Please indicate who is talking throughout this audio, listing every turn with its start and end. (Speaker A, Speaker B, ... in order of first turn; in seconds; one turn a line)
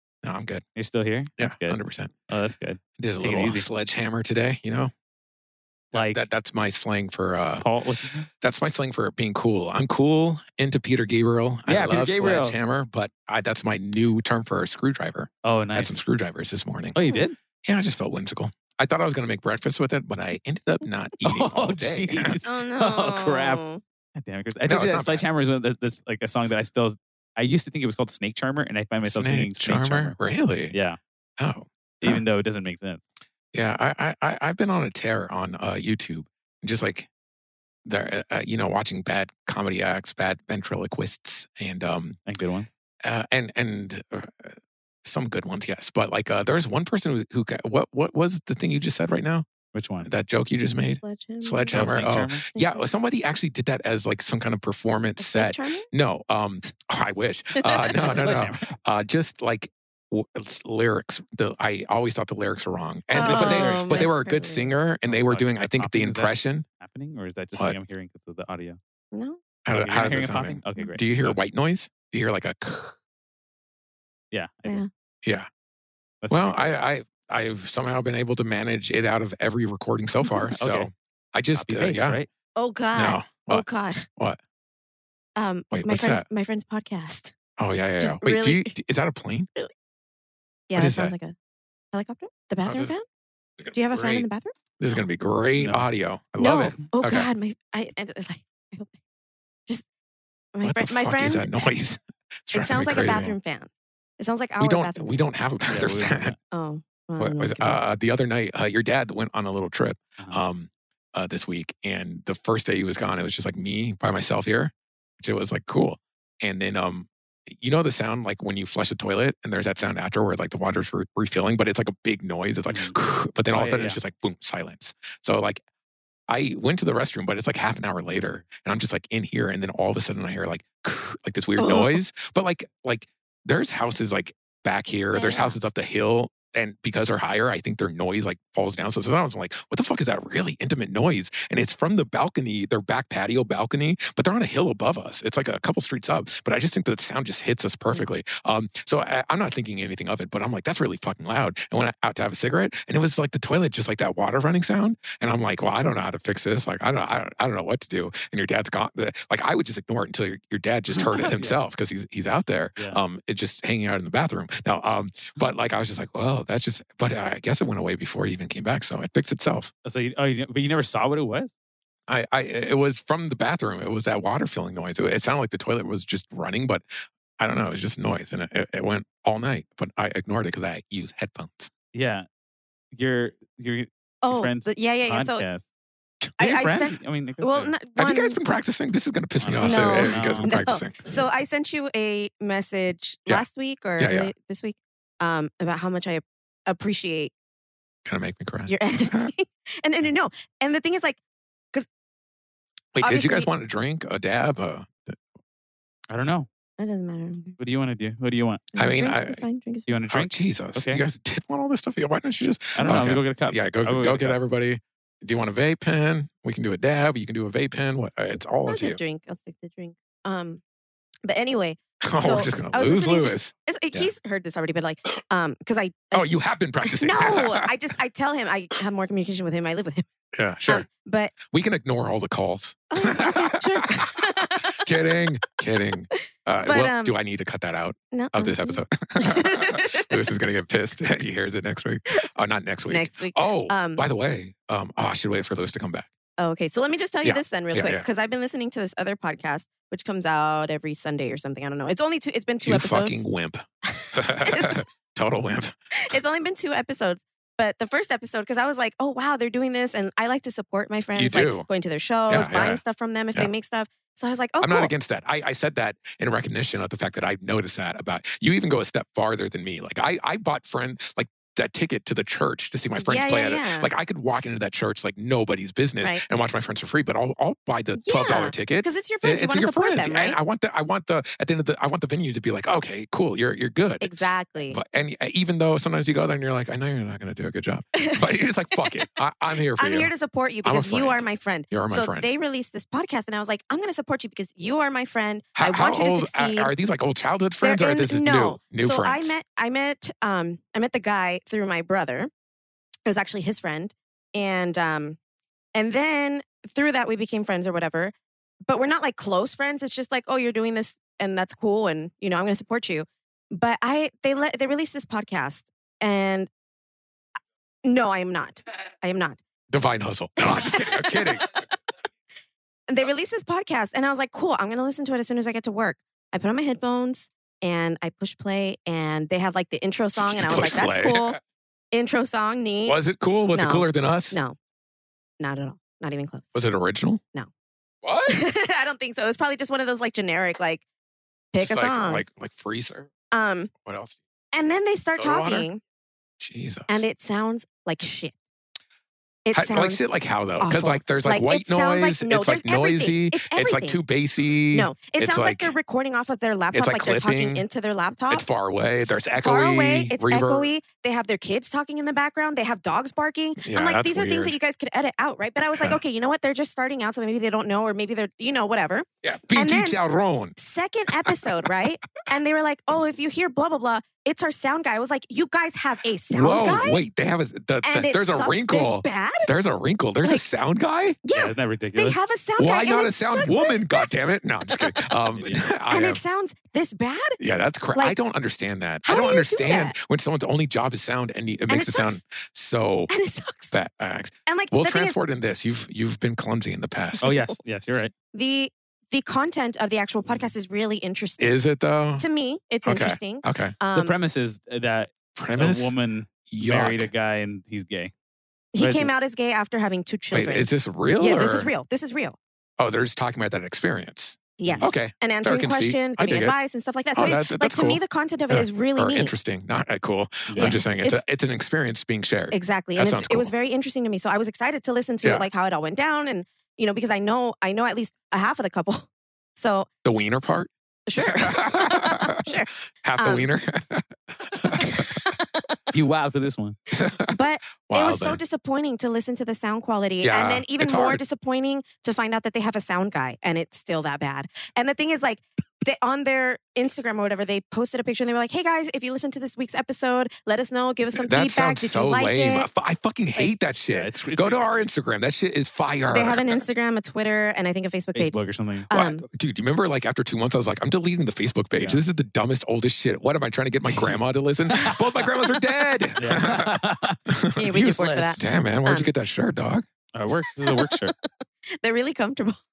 Speaker A: 0.2-0.6
Speaker B: 0.8-3.7
Speaker A: 1.4-2.1
Speaker A: 3.0-4.9
Speaker A: 5.9-7.7
Speaker B: 5.9-6.2
Speaker B: 7.6-8.3
Speaker A: 8.4-17.0
Speaker B: 11.7-12.6
Speaker B: 15.4-16.0
Speaker B: 16.9-17.4
Speaker A: 17.6-22.4
Speaker B: 21.2-23.6
Speaker C: 22.4-23.8
Speaker B: 24.1-30.1
Speaker A: 24.6-25.2
Speaker A: 29.0-30.7
Speaker B: 30.7-31.0
Speaker A: 31.4-32.2
Speaker B: 32.0-33.0
Speaker A: 33.5-37.1
Speaker A: 37.8-42.2
Speaker B: 42.3-42.7
Speaker A: 43.0-49.5
Speaker B: 49.7-50.1
Speaker A: 50.0-66.7
Speaker C: 51.0-51.8
Speaker B: 51.7-52.5
Speaker C: 52.5-52.9
Speaker C: 55.2-55.9
Speaker C: 57.6-57.9
Speaker B: 58.0-58.7
Speaker C: 63.1-64.7
Speaker B: 63.2-64.1
Speaker B: 65.1-68.8
Speaker C: 69.1-69.4
Speaker A: 69.6-73.0
Speaker B: 69.7-71.4
Speaker B: 74.3-74.8
Speaker B: 76.2-76.7
Speaker A: 76.3-82.2
Speaker B: 80.5-80.9
Speaker B: 81.5-82.3
Speaker C: 82.5-84.1
Speaker A: 82.9-83.6
Speaker C: 85.3-87.3
Speaker A: 85.7-86.2
Speaker A: 87.6-89.5
Speaker C: 88.0-88.8
Speaker C: 90.7-91.3
Speaker A: 90.7-91.1
Speaker C: 91.9-93.0
Speaker A: 92.7-92.9
Speaker A: 93.6-94.3
Speaker C: 93.7-94.5
Speaker A: 94.8-97.3
Speaker B: 95.6-95.9
Speaker C: 96.4-98.9
Speaker C: 100.5-101.5
Speaker A: 100.6-103.3
Speaker C: 102.5-105.2
Speaker A: 104.6-106.3
Speaker B: 105.7-106.3
Speaker C: 106.5-107.8
Speaker A: 107.2-125.6
Speaker B: 122.7-123.0
Speaker B: 123.5-124.0
Speaker A: 126.3-169.7
Speaker C: 131.6-132.0
Speaker C: 135.1-135.6
Speaker B: 160.9-161.6
Speaker B: 169.8-171.5
Speaker A: 172.1-176.8
Speaker A: 177.4-181.7
Speaker B: 181.9-182.2
Speaker B: 182.9-185.7
Speaker C: 184.2-185.4
Speaker C: 186.4-188.4
Speaker B: 186.4-187.8
Speaker A: 187.9-191.1
Speaker B: 189.4-190.6
Speaker C: 189.6-197.3
Speaker A: 194.0-194.3
Speaker A: 198.0-199.3
Speaker C: 198.7-201.2
Speaker A: 202.9-205.2
Speaker C: 203.0-203.5
Speaker B: 206.1-206.5
Speaker C: 206.8-207.6
Speaker B: 207.6-208.7
Speaker C: 208.7-209.9
Speaker A: 208.7-209.4
Speaker B: 209.9-211.0
Speaker A: 210.1-219.0
Speaker B: 212.8-214.4
Speaker C: 218.7-220.6
Speaker C: 221.2-226.3
Speaker A: 222.0-224.1
Speaker A: 226.1-227.7
Speaker C: 226.8-230.1
Speaker A: 230.3-230.8
Speaker C: 230.7-231.4
Speaker A: 231.4-246.1
Speaker C: 232.9-234.9
Speaker C: 236.6-237.1
Speaker C: 238.1-240.1
Speaker C: 242.9-244.0
Speaker C: 246.4-253.2
Speaker A: 247.2-248.0
Speaker A: 252.6-255.7
Speaker C: 253.9-254.8
Speaker C: 255.9-264.9
Speaker A: 261.1-261.7
Speaker A: 262.3-262.8
Speaker A: 264.6-284.1
Speaker C: 273.0-273.9
Speaker C: 278.0-280.4
Speaker C: 284.0-284.8
Speaker A: 284.7-290.1
Speaker C: 287.9-289.0
Speaker C: 289.7-296.7
Speaker A: 290.6-292.3
Speaker A: 295.5-299.3
Speaker C: 297.6-302.3
Speaker C: 303.1-305.2
Speaker C: 305.7-308.1
Speaker C: 308.7-316.5
Speaker C: 317.8-319.4
Speaker A: 319.7-321.5
Speaker C: 320.6-321.3
Speaker C: 322.9-331.4
Speaker A: 330.1-331.4
Speaker C: 331.9-333.0
Speaker A: 332.9-334.4
Speaker C: 333.5-334.6
Speaker C: 335.4-336.5
Speaker A: 336.5-337.2
Speaker A: 338.0-338.4
Speaker C: 338.3-340.8
Speaker C: 341.5-342.2
Speaker A: 341.6-343.1
Speaker C: 343.3-343.7
Speaker A: 343.8-344.2
Speaker C: 344.5-345.8
Speaker A: 345.1-345.7
Speaker A: 346.4-347.0
Speaker C: 346.9-348.3
Speaker C: 349.4-350.0
Speaker A: 349.5-355.7
Speaker C: 350.6-354.0
Speaker C: 354.7-358.4
Speaker A: 356.7-357.6
Speaker A: 358.3-360.7
Speaker C: 359.3-370.0
Speaker A: 363.6-364.5
Speaker A: 369.2-370.6
Speaker C: 370.6-377.0
Speaker A: 371.2-371.7
Speaker A: 376.3-381.2
Speaker C: 377.8-379.5
Speaker C: 381.2-384.1
Speaker B: 381.4-382.2
Speaker A: 382.6-386.2
Speaker C: 384.7-385.2
Speaker B: 385.4-385.6
Speaker C: 385.9-387.4
Speaker A: 387.4-393.1
Speaker C: 389.0-389.9
Speaker C: 391.7-392.2
Speaker C: 393.1-393.7
Speaker A: 393.7-397.3
Speaker C: 394.5-395.2
Speaker C: 397.2-397.6
Speaker B: 397.2-398.1
Speaker C: 398.3-401.5
Speaker A: 401.4-402.2
Speaker C: 402.2-404.1
Speaker A: 402.8-403.8
Speaker B: 403.9-408.1
Speaker A: 405.4-405.9
Speaker A: 406.5-407.1
Speaker C: 408.7-412.4
Speaker B: 408.8-409.1
Speaker A: 410.3-411.7
Speaker A: 412.8-416.5
Speaker C: 414.6-419.3
Speaker A: 417.1-423.5
Speaker B: 420.5-420.8
Speaker C: 420.5-421.2
Speaker C: 422.5-429.9
Speaker A: 430.0-432.5
Speaker C: 431.1-433.5
Speaker A: 433.0-435.2
Speaker C: 434.7-435.9
Speaker B: 435.9-436.8
Speaker A: 436.9-437.3
Speaker C: 437.2-452.7
Speaker A: 437.9-438.4
Speaker A: 440.2-441.2
Speaker A: 451.2-456.6
Speaker B: 453.9-454.8
Speaker C: 456.1-458.4
Speaker B: 458.1-458.9
Speaker C: 458.9-459.2
Speaker A: 458.9-469.8
Speaker B: 463.9-464.1
Speaker B: 464.7-465.3
Speaker B: 466.2-467.2
Speaker C: 467.5-469.1
Speaker B: 467.7-468.4
Speaker B: 470.1-471.1
Speaker C: 470.6-472.6